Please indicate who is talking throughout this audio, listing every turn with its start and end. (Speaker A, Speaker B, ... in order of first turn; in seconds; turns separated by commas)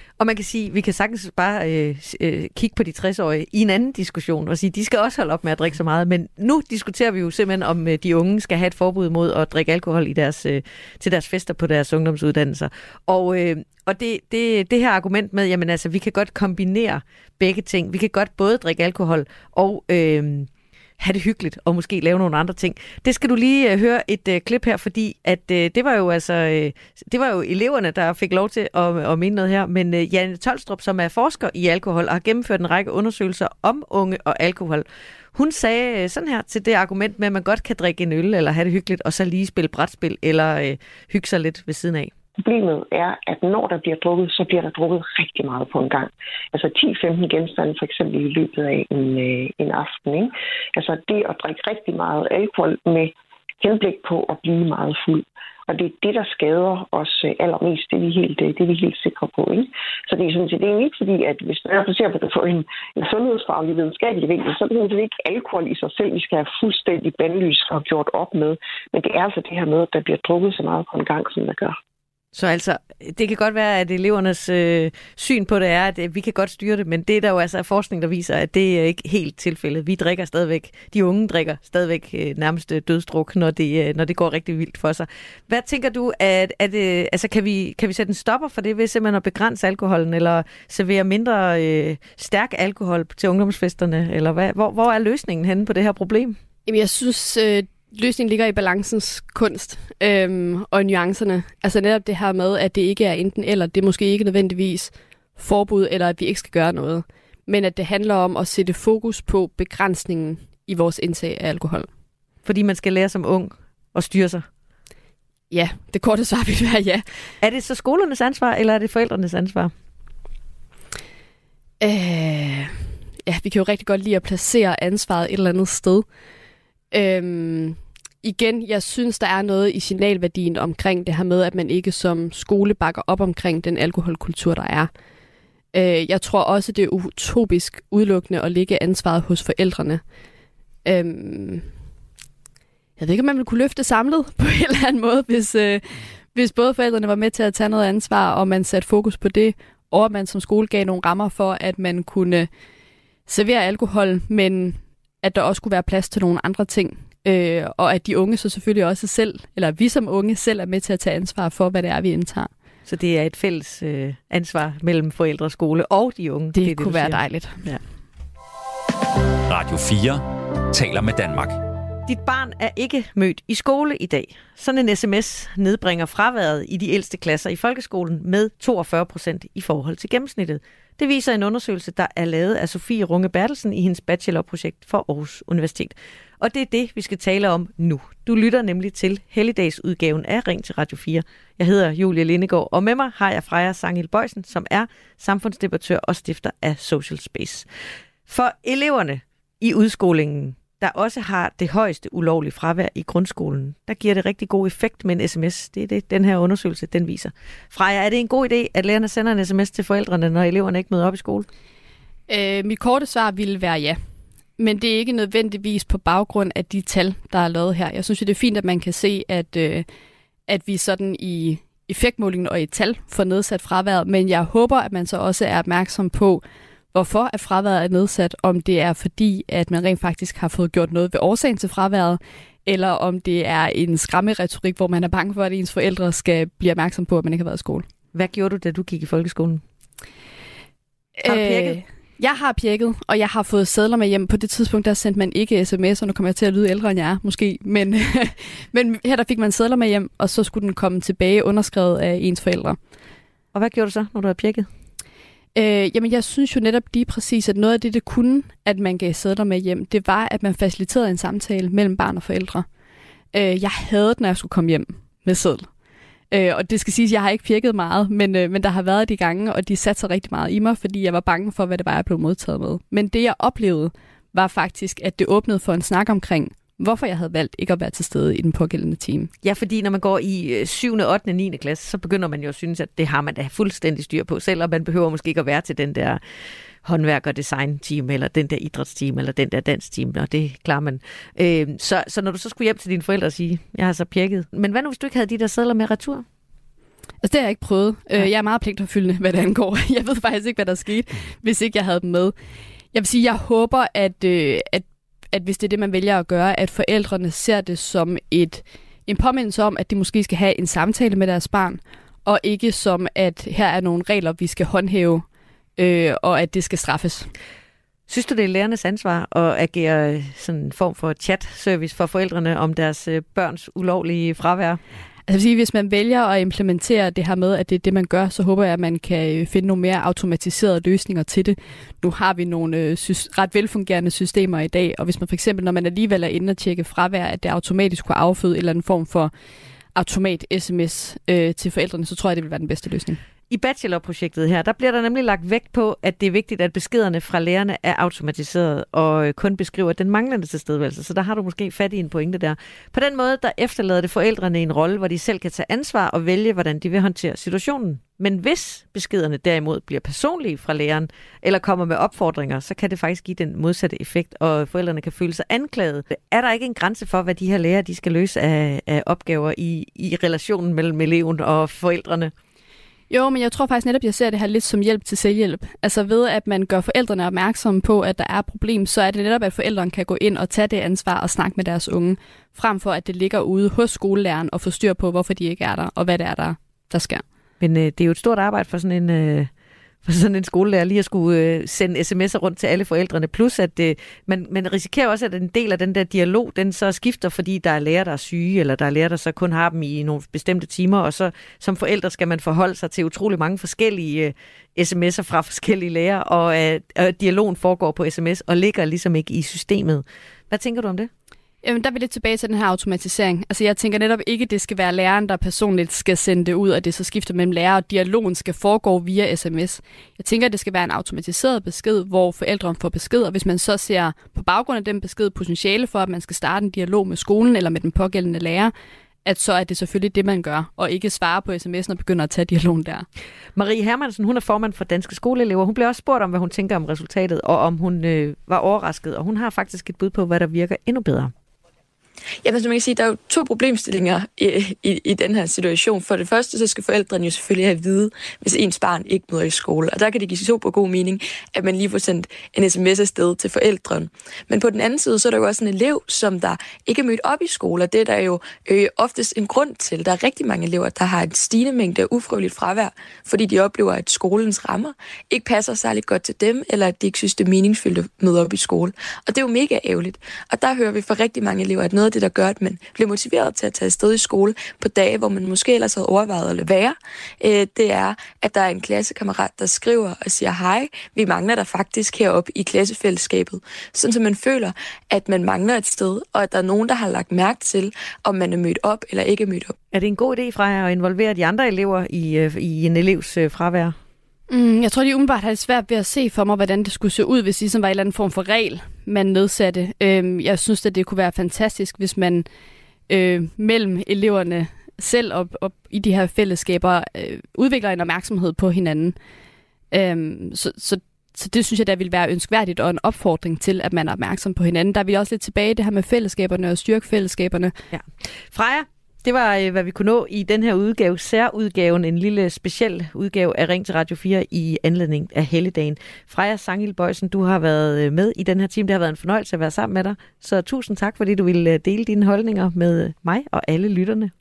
Speaker A: 0.2-42.1, Speaker B: 42.4-71.8, Speaker A: 72.3-96.4, Speaker C: 96.7-111.9, Speaker A: 112.4-114.5, Speaker C: 115.5-117.0, Speaker A: 117.4-119.7, Speaker C: 121.8-126.0, Speaker C: 126.9-134.9, Speaker C: 135.7-140.0, Speaker C: 140.8-141.7, Speaker C: 143.0-152.5, Speaker C: 153.3-162.5, Speaker A: 162.8-167.8, Speaker C: 166.5-167.7, Speaker D: 169.5-171.6, Speaker A: 172.1-197.7, Speaker A: 198.3-211.5, Speaker C: 212.3-214.0, Speaker C: 214.6-219.8, Speaker C: 220.5-226.4, Speaker C: 226.9-237.8, Speaker A: 238.1-239.6, Speaker C: 241.2-252.8, Speaker A: 241.2-241.8, Speaker A: 253.5-254.7, Speaker C: 255.5-262.6, Speaker C: 263.3-265.7, Speaker C: 266.3-279.3, Speaker A: 279.4-286.2, Speaker A: 286.8-296.2, Speaker C: 297.2-302.3, Speaker C: 302.9-315.2, Speaker C: 315.8-317.3, Speaker A: 318.1-324.8, Speaker C: 325.3-339.3, Speaker C: 339.9-343.2, Speaker A: 343.5-372.3, Speaker C: 373.1-387.2, Speaker A: 387.6-389.5, Speaker A: 390.0-411.1, Speaker C: 411.6-428.7, Speaker C: 429.2-433.1, Speaker A: 433.5-441.3, Speaker E: 442.4-489.7, Speaker A: 489.9-493.9, Speaker C: 494.5-502.4, Speaker C: 503.1-509.1, Speaker C: 509.9-517.7, Speaker A: 517.9-534.3